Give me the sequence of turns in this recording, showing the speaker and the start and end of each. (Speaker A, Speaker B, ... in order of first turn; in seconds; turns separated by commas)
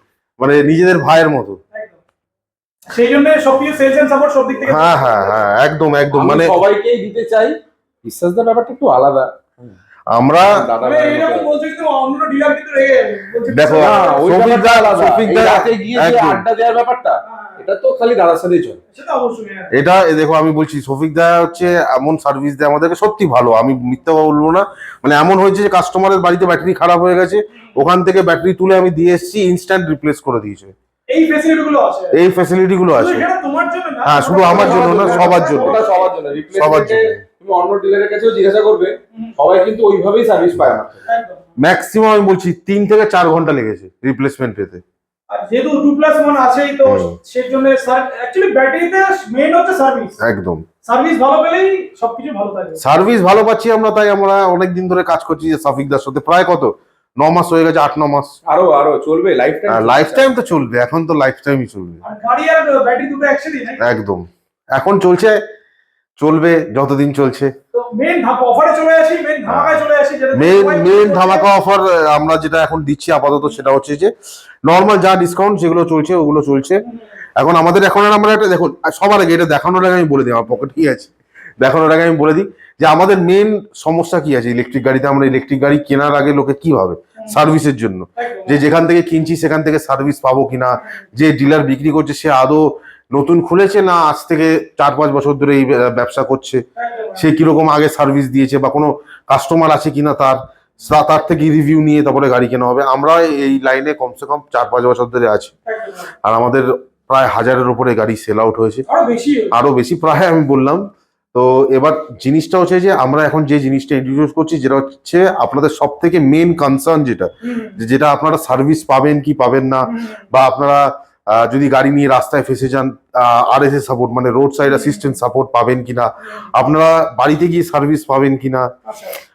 Speaker A: 0.4-1.6, Speaker B: 1.7-2.0, Speaker B: 2.9-5.4, Speaker A: 4.6-6.6, Speaker C: 6.1-9.7, Speaker A: 10.1-10.6, Speaker C: 10.4-11.5, Speaker B: 10.8-14.3, Speaker A: 13.5-16.4, Speaker C: 13.7-18.8, Speaker B: 17.2-17.6, Speaker B: 18.9-19.7, Speaker A: 19.7-30.7, Speaker B: 31.1-32.2, Speaker A: 32.1-33.2, Speaker B: 32.9-36.1, Speaker A: 34.0-35.8, Speaker C: 34.5-41.0, Speaker A: 36.5-37.2, Speaker B: 41.0-41.4, Speaker A: 41.6-44.8, Speaker B: 45.3-50.2, Speaker A: 46.8-47.1, Speaker A: 50.2-50.6, Speaker B: 50.8-52.8, Speaker A: 52.8-58.4, Speaker C: 58.5-60.3, Speaker A: 59.7-62.0, Speaker B: 62.0-63.8, Speaker A: 63.8-65.4, Speaker A: 66.2-67.5, Speaker B: 67.7-71.5, Speaker A: 69.5-69.8, Speaker A: 70.3-74.1, Speaker A: 74.6-76.8, Speaker A: 77.4-96.6, Speaker B: 88.2-88.6, Speaker B: 96.8-97.2, Speaker A: 97.2-105.5, Speaker B: 105.7-106.1, Speaker A: 106.2-108.8, Speaker B: 108.9-109.5, Speaker A: 109.5-128.7, Speaker B: 117.4-117.7, Speaker B: 124.7-125.0, Speaker B: 128.8-129.2